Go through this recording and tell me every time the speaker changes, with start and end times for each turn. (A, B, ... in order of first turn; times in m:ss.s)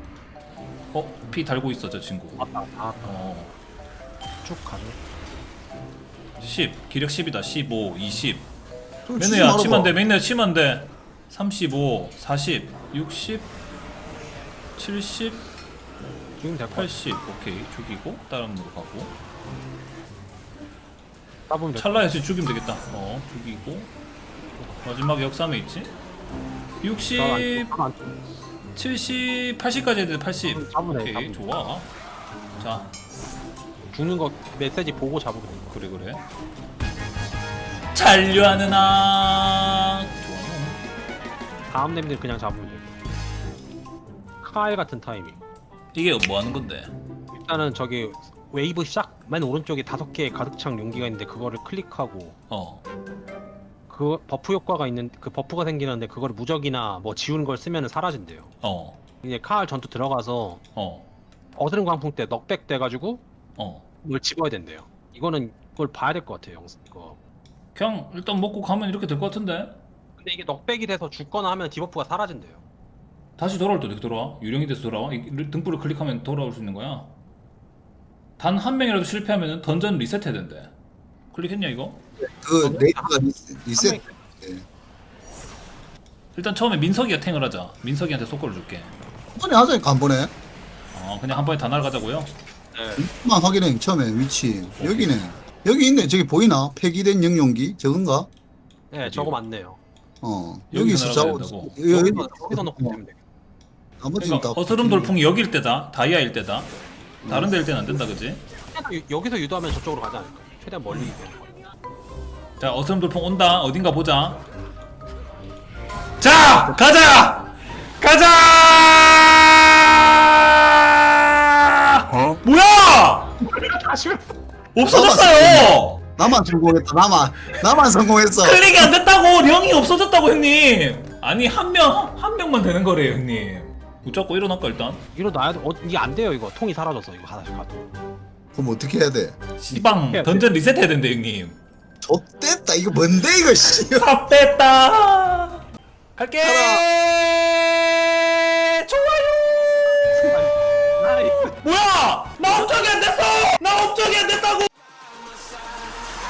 0:00.9-0:02.5 A
0:02.4-0:03.1 B
0:03.0-0:03.5 A
0:04.4-0:05.0 B
0:06.4-0:08.5 A
0:09.0-0:09.9 C
0:09.2-0:13.5 A
0:14.8-0:15.5 A
0:16.4-0:17.0 B
0:16.7-0:19.2 A
0:21.5-0:22.1 B
0:21.7-0:23.9 A
0:24.8-0:26.0 A
0:26.8-0:27.7 A
0:27.1-0:28.2 B
0:28.7-0:31.9 A
0:30.5-0:31.4 B
0:32.6-0:32.9 A
0:33.9-0:35.8 B
0:35.7-0:36.2 A
0:37.9-0:40.8 A
0:41.7-0:43.0 B
0:44.4-0:45.4 B
0:45.9-0:46.9 A
0:47.3-0:52.4 B
0:52.5-0:52.8 A
0:53.9-0:58.5 B
0:58.6-0:59.0 A
0:59.2-1:00.6 B
1:00.8-1:01.1 A
1:01.6-1:03.2 B
1:03.6-1:03.8 A
1:04.0-1:07.2 B
1:07.7-1:09.8 A
1:10.2-1:12.6 B
1:13.4-1:17.1 A
1:18.4-1:20.7 A
1:21.3-1:22.0 A
1:22.2-1:24.6 C
1:22.6-1:23.1 B
1:23.7-1:24.2 B
1:26.3-1:28.9 A
1:29.4-1:30.3 C
1:30.9-1:32.3 A
1:32.7-1:33.0 B
1:33.0-1:38.3 C
1:34.8-1:35.2 A
1:38.9-1:39.8 B
1:39.0-1:39.4 A
1:40.2-1:43.0 C
1:40.7-1:41.8 A
1:41.8-1:43.2 B
1:44.0-1:45.1 C
1:44.2-1:46.7 A
1:47.2-1:48.0 C
1:47.2-1:48.4 A
1:48.6-1:51.6 B
1:52.6-1:54.4 A
1:56.2-2:03.4 A
1:56.5-1:56.8 B
2:03.4-2:04.2 B
2:04.7-2:06.0 A
2:04.8-2:08.9 C
2:08.3-2:15.0 A
2:15.1-2:17.9 B
2:18.5-2:19.4 C
2:19.6-2:21.6 A
2:19.7-2:20.5 B
2:22.0-2:24.1 C
2:23.6-2:25.6 A
2:26.2-2:30.3 A
2:26.4-2:26.8 C
2:30.1-2:31.6 B
2:31.4-2:34.7 A